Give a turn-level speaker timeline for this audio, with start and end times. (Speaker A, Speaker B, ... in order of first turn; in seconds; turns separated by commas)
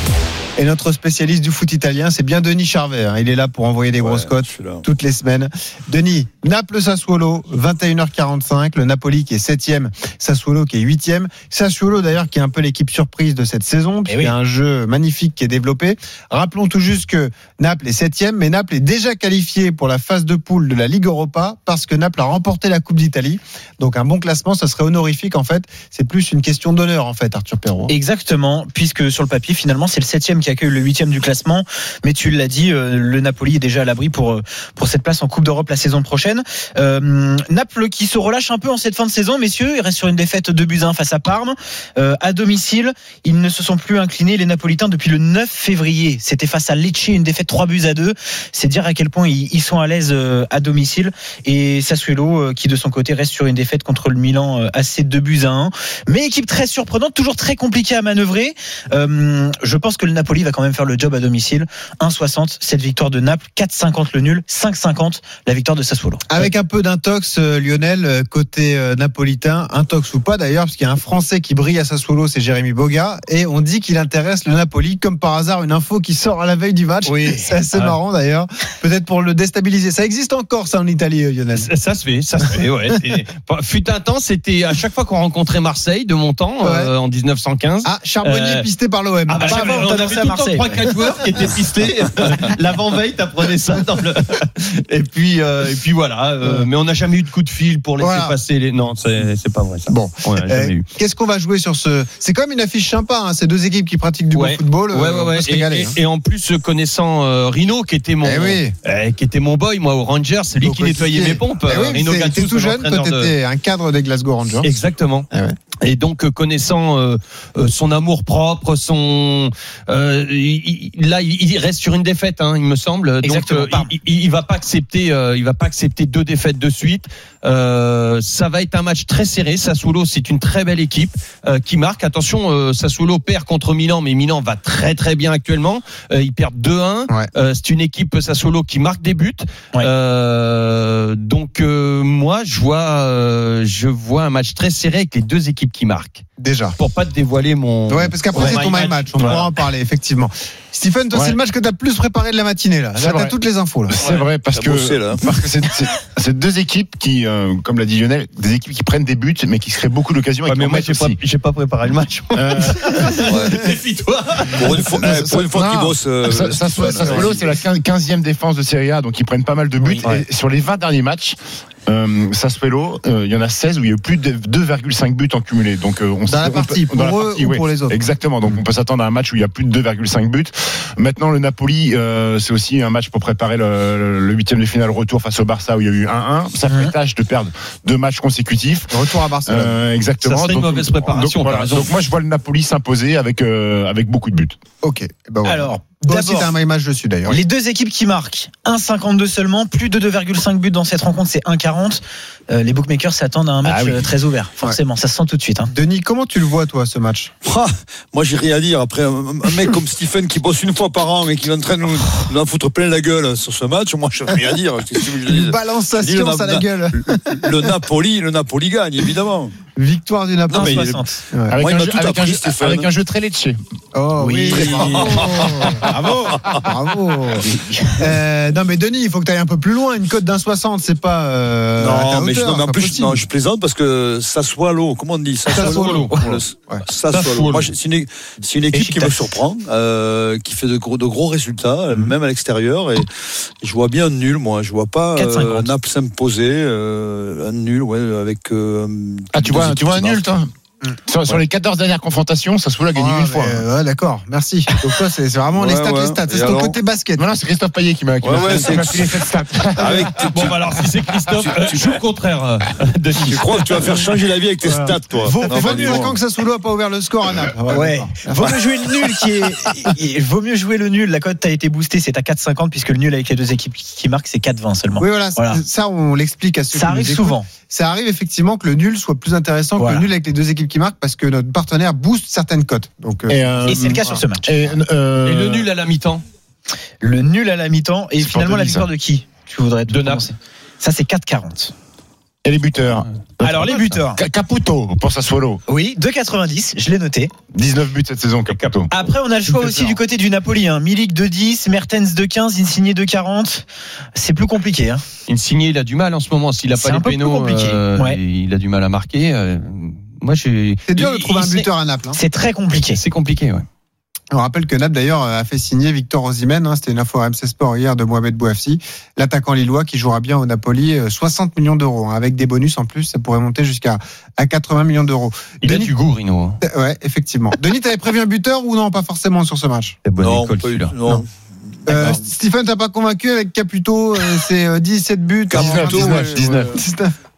Speaker A: 0.6-27.9, Speaker B: 4.0-4.8, Speaker C: 14.1-14.3, Speaker C: 27.9-66.3, Speaker A: 66.3-81.7, Speaker C: 77.1-77.5, Speaker D: 81.5-88.7, Speaker A: 86.6-86.9, Speaker A: 87.8-90.0, Speaker D: 89.3-100.8, Speaker C: 89.4-90.8, Speaker A: 98.0-98.3, Speaker A: 99.9-106.0, Speaker D: 104.3-113.3, Speaker A: 108.2-108.7, Speaker A: 110.6-114.7, Speaker D: 114.6-115.3, Speaker D: 115.8-146.2, Speaker C: 123.2-123.9, Speaker A: 146.4-146.8, Speaker D: 146.8-149.5, Speaker A: 147.9-154.0, Speaker E: 151.1-151.4, Speaker E: 153.0-153.3, Speaker E: 153.9-161.2, Speaker B: 154.5-155.2, Speaker D: 160.4-165.1, Speaker E: 162.3-163.0, Speaker B: 163.2-163.7, Speaker B: 164.5-167.4, Speaker E: 165.0-194.6, Speaker A: 167.0-167.3, Speaker A: 176.3-178.0, Speaker C: 186.7-186.9, Speaker A: 188.9-189.8, Speaker D: 190.2-191.9, Speaker A: 194.8-197.4, Speaker C: 195.4-196.5, Speaker C: 197.3-205.7, Speaker E: 203.6-204.1, Speaker A: 205.7-207.3, Speaker B: 207.4-219.5, Speaker A: 215.2-217.8, Speaker A: 219.8-221.6, Speaker C: 220.5-221.2, Speaker B: 220.5-221.0, Speaker E: 221.5-223.6, Speaker B: 221.6-222.9, Speaker A: 223.9-225.9, Speaker C: 224.2-225.3, Speaker B: 224.5-226.7, Speaker C: 225.8-226.4, Speaker A: 226.6-227.5, Speaker A: 228.0-233.2, Speaker B: 231.8-243.1, Speaker A: 235.5-236.8, Speaker D: 235.5-236.1, Speaker D: 237.1-237.7, Speaker C: 238.7-239.2, Speaker B: 243.6-250.2, Speaker C: 245.2-245.7, Speaker E: 249.3-250.5, Speaker E: 251.1-253.6, Speaker A: 252.9-257.2, Speaker B: 255.5-256.8, Speaker E: 257.2-260.3, Speaker B: 258.2-259.2, Speaker B: 259.8-260.7, Speaker D: 260.3-263.9, Speaker B: 261.4-261.9, Speaker B: 263.2-266.2, Speaker A: 264.6-269.2, Speaker C: 267.7-275.6, Speaker A: 275.0-283.8, Speaker C: 276.7-277.5, Speaker C: 279.8-280.1, Speaker E: 283.3-285.7, Speaker C: 283.6-284.6, Speaker D: 285.2-286.2, Speaker C: 287.0-291.7, Speaker E: 288.2-288.9, Speaker D: 289.9-290.2, Speaker E: 292.4-295.6, Speaker C: 293.4-294.2, Speaker C: 295.7-297.3, Speaker E: 297.5-298.9, Speaker D: 298.5-298.9, Speaker C: 298.9-303.6, Speaker C: 304.1-305.0, Speaker D: 305.3-311.7, Speaker C: 306.8-308.2, Speaker A: 310.9-312.2, Speaker C: 312.1-313.0, Speaker D: 312.9-313.6, Speaker A: 314.3-325.9, Speaker D: 325.6-326.6, Speaker A: 326.6-330.0, Speaker D: 330.0-330.9, Speaker B: 330.2-331.3, Speaker B: 331.9-332.2, Speaker A: 331.9-337.1, Speaker B: 335.5-336.8, Speaker E: 335.5-336.8